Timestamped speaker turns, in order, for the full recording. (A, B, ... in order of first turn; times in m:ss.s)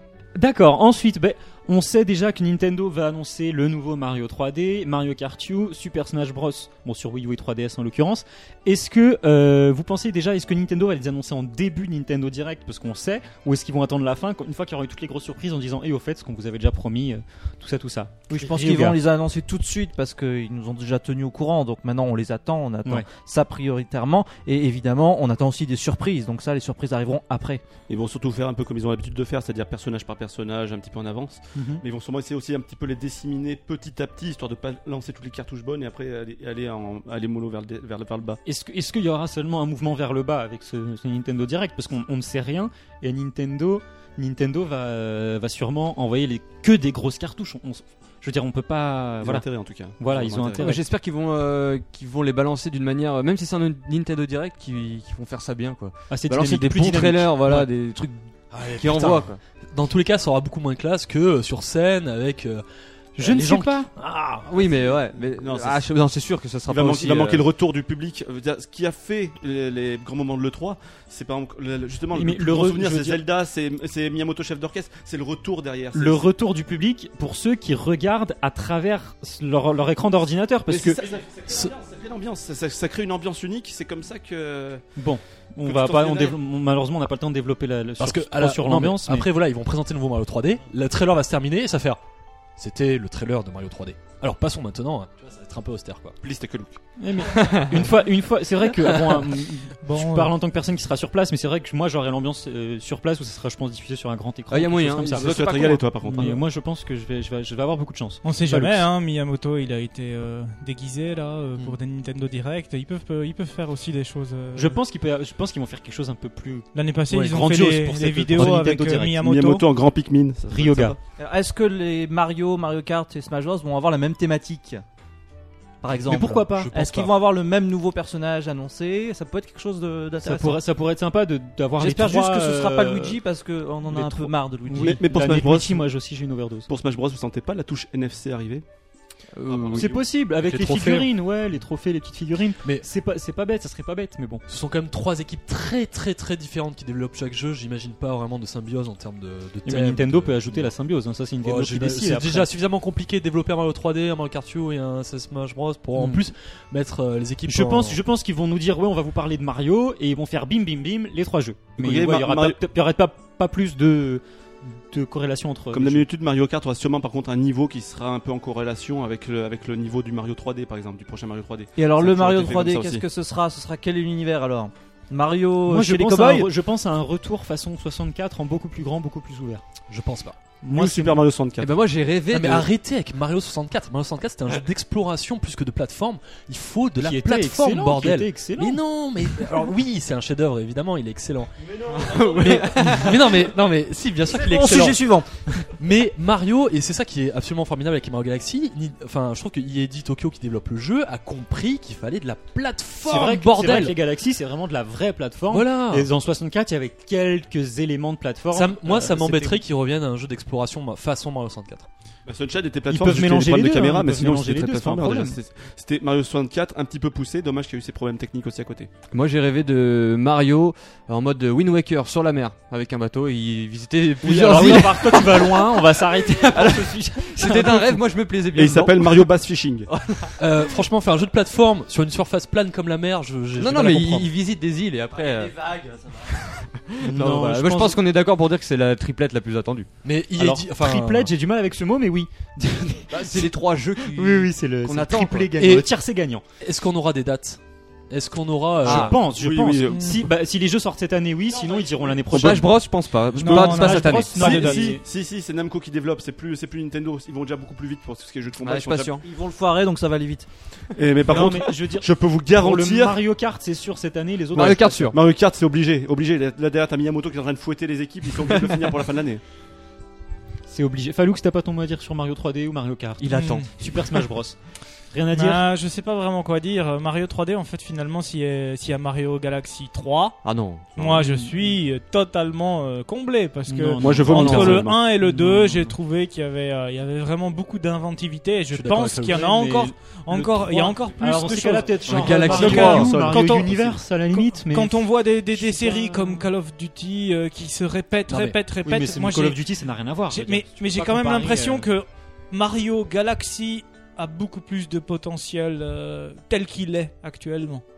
0:00.3-0:19.0 A
0:18.3-0:27.6 B
0:18.6-0:18.9 C
0:27.9-0:38.4 D
0:31.5-0:31.8 A
0:38.4-0:49.4 A
0:49.2-0:50.6 D
0:50.0-0:50.8 A
0:50.6-0:59.4 E
0:56.1-0:57.7 A
0:58.5-1:02.6 C
1:03.2-1:04.8 C
1:03.2-1:03.9 A
1:04.5-1:07.4 E
1:05.4-1:05.8 D
1:06.7-1:16.3 D
1:12.1-1:13.2 A
1:15.9-1:21.0 A
1:20.7-1:24.8 D
1:21.5-1:21.7 C
1:25.0-1:29.3 A
1:25.6-1:26.4 D
1:28.0-1:32.0 C
1:32.6-1:36.2 C
1:36.2-1:36.8 D
1:37.0-1:48.9 A
1:37.2-1:37.9 E
1:39.8-1:40.3 F
1:44.5-1:45.8 E
1:45.1-1:46.4 D
1:48.2-1:54.8 F
1:54.5-1:56.7 A
1:56.7-1:59.6 F
1:57.1-1:57.5 C
1:57.2-1:59.3 A
1:59.2-2:01.0 D
2:00.5-2:01.0 A
2:01.2-2:04.8 B
2:05.8-2:10.6 B
2:06.0-2:07.1 C
2:06.0-2:06.7 A
2:10.2-2:13.2 A
2:11.8-2:15.1 B
2:13.9-2:16.7 A
2:14.8-2:15.8 D
2:16.7-2:18.6 D
2:19.4-2:24.4 A
2:19.5-2:20.0 D
2:20.4-2:21.1 C
2:24.5-2:30.7 C
2:29.6-2:32.5 A
2:31.4-2:38.0 C
2:36.0-2:36.2 A
2:37.5-2:46.0 A
2:41.8-2:42.6 D
2:45.7-2:53.0 D
2:51.8-2:56.5 B
2:55.7-2:59.6 A
2:59.9-3:00.4 C
3:00.6-3:01.2 A
3:00.7-3:01.7 D
3:01.6-3:02.7 E
3:02.3-3:11.5 C
3:07.0-3:09.4 A
3:11.9-3:12.2 D
3:11.9-3:13.4 E
3:12.3-3:15.0 C
3:14.3-3:15.3 B
3:15.7-3:24.0 C
3:23.1-3:29.6 A
3:25.5-3:26.1 C
3:28.5-3:31.9 C
3:32.2-3:38.9 D
3:32.9-3:35.4 A
3:39.1-3:49.3 E
3:44.2-3:48.0 A
3:44.4-3:44.9 D
3:48.5-3:49.9 D
3:50.4-3:54.3 C
3:53.6-3:55.6 E
3:55.1-3:56.3 B
3:56.3-3:59.9 E
3:57.0-3:58.0 A
4:00.0-4:01.3 C
4:00.4-4:06.4 A
4:03.1-4:05.7 E
4:05.6-4:05.9 C
4:06.6-4:09.2 C
4:08.8-4:12.8 A
4:08.8-4:09.1 E
4:09.1-4:10.2 D
4:09.9-4:10.2 F
4:12.3-4:12.7 D
4:12.3-4:14.8 E
4:13.3-4:15.0 A
4:13.4-4:14.6 F
4:14.0-4:19.2 D
4:18.6-4:19.2 E
4:19.2-4:20.5 B
4:20.9-4:23.2 D
4:21.2-4:25.1 A
4:24.5-4:25.2 E
4:24.5-4:29.4 D
4:30.7-4:35.6 A
4:33.2-4:34.2 E
4:33.3-4:33.7 F
4:35.3-4:40.4 F
4:40.4-4:41.1 E
4:40.9-4:59.6 F
4:41.2-4:41.7 A
4:43.7-4:45.9 A
4:44.0-4:45.0 D
4:44.3-4:44.8 E
4:48.7-4:49.5 C
4:49.3-4:56.5 A
4:52.1-4:53.5 E
4:52.1-4:52.5 C
4:53.1-4:53.7 D
4:58.3-4:58.6 C
4:58.8-5:01.9 A
5:00.3-5:07.8 F